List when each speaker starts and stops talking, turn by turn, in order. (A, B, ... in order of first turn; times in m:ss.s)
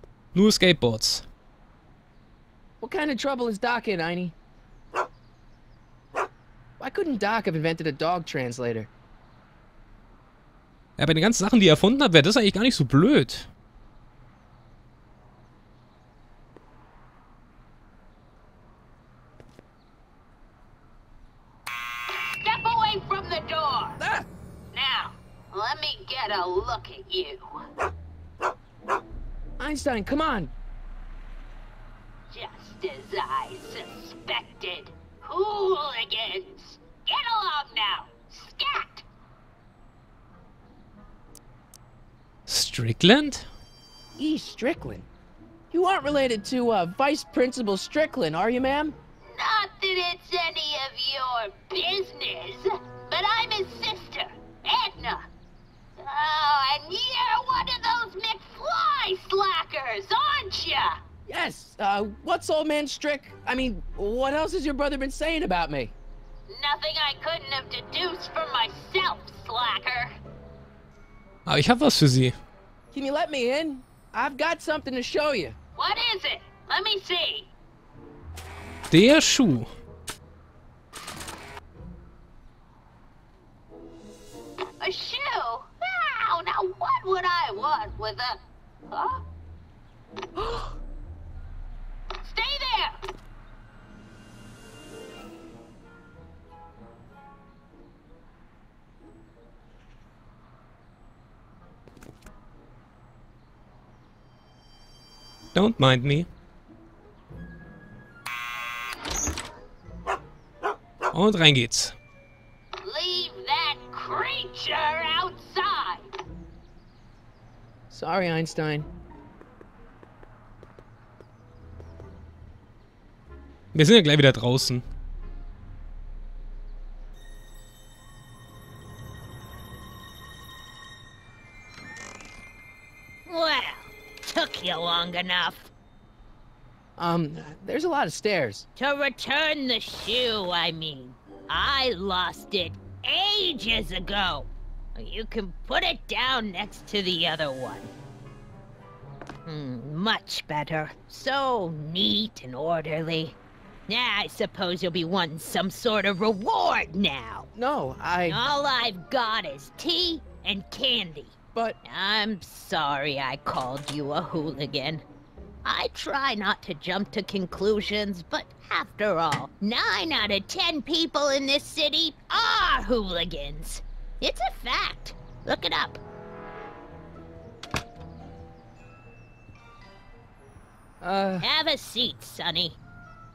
0:00.3-0:01.3 A
0:02.8-0:04.4 B
0:06.8-0:08.9 B
0:11.0-0:13.5 A
0:22.4-0:24.0 C
0:24.0-0:24.3 B
0:24.7-0:27.5 C
0:29.6-0:30.5 B
0:32.3-0:39.0 C
0:42.5-0:43.5 A
0:44.2-0:45.1 B
0:45.7-0:49.0 B
0:49.3-0:55.3 C
0:56.0-1:01.0 C
1:01.3-1:06.0 B
1:06.5-1:10.1 C
1:11.5-1:12.4 A
1:12.9-1:15.6 B
1:15.8-1:17.5 C
1:18.9-1:19.7 A
1:24.8-1:28.4 C
1:28.9-1:29.2 C
1:32.2-1:33.0 C
1:45.5-1:46.3 A
1:51.1-1:52.0 A
1:52.8-1:56.1 C
1:57.9-1:58.9 B
2:03.7-2:04.9 A
2:13.3-2:15.7 C
2:17.0-2:18.7 B
2:18.8-2:27.9 C
2:29.5-2:33.4 C
2:33.9-2:37.5 C
2:37.6-2:38.4 B
2:38.2-2:45.0 C
2:45.6-2:56.0 C
3:01.0-3:01.5 B
3:01.4-3:02.8 C